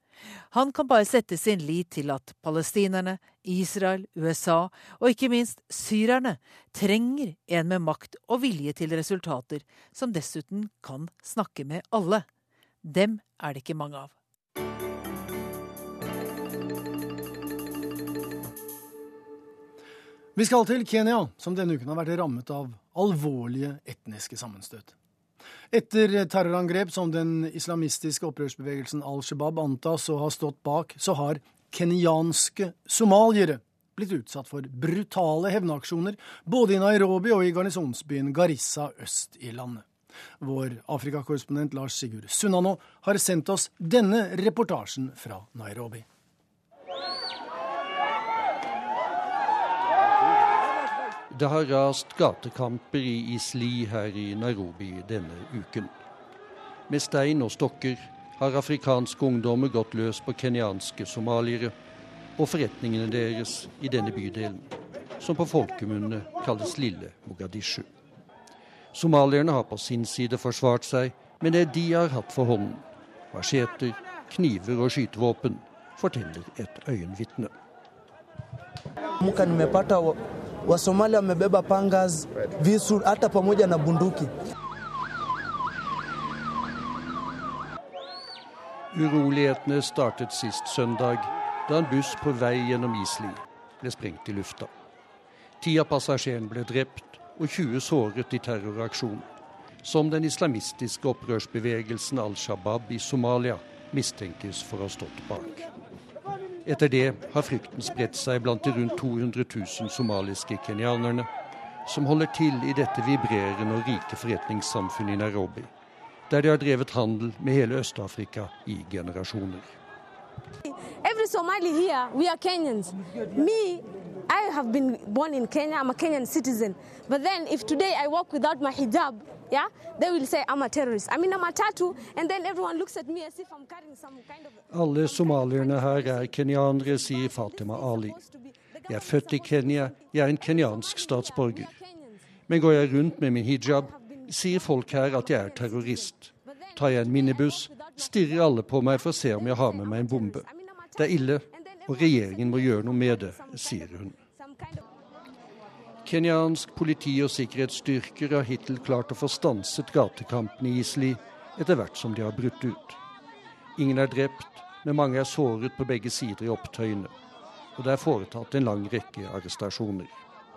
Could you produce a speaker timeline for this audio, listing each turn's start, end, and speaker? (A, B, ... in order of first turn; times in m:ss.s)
0:00.5-0:12.2 A
0:12.8-0:14.1 A
0:20.4-0:24.9 B
0:25.7-0:39.9 B
0:40.4-0:46.0 B
0:51.3-0:55.9 C
0:56.9-1:01.7 C
1:02.4-1:07.9 C
1:08.9-1:17.5 C
1:19.2-1:24.3 D
1:28.9-1:34.7 C
1:35.6-1:39.3 C
1:39.8-1:45.6 C
1:46.6-1:51.3 C
1:51.8-1:55.7 C
1:56.3-1:59.7 C
2:00.7-2:22.2 E
2:14.7-2:18.2 C
2:18.9-2:21.7 C
2:22.5-2:34.2 C
2:23.6-2:34.8 E
2:36.0-2:43.0 C
2:43.8-2:47.1 C
2:47.8-2:50.2 C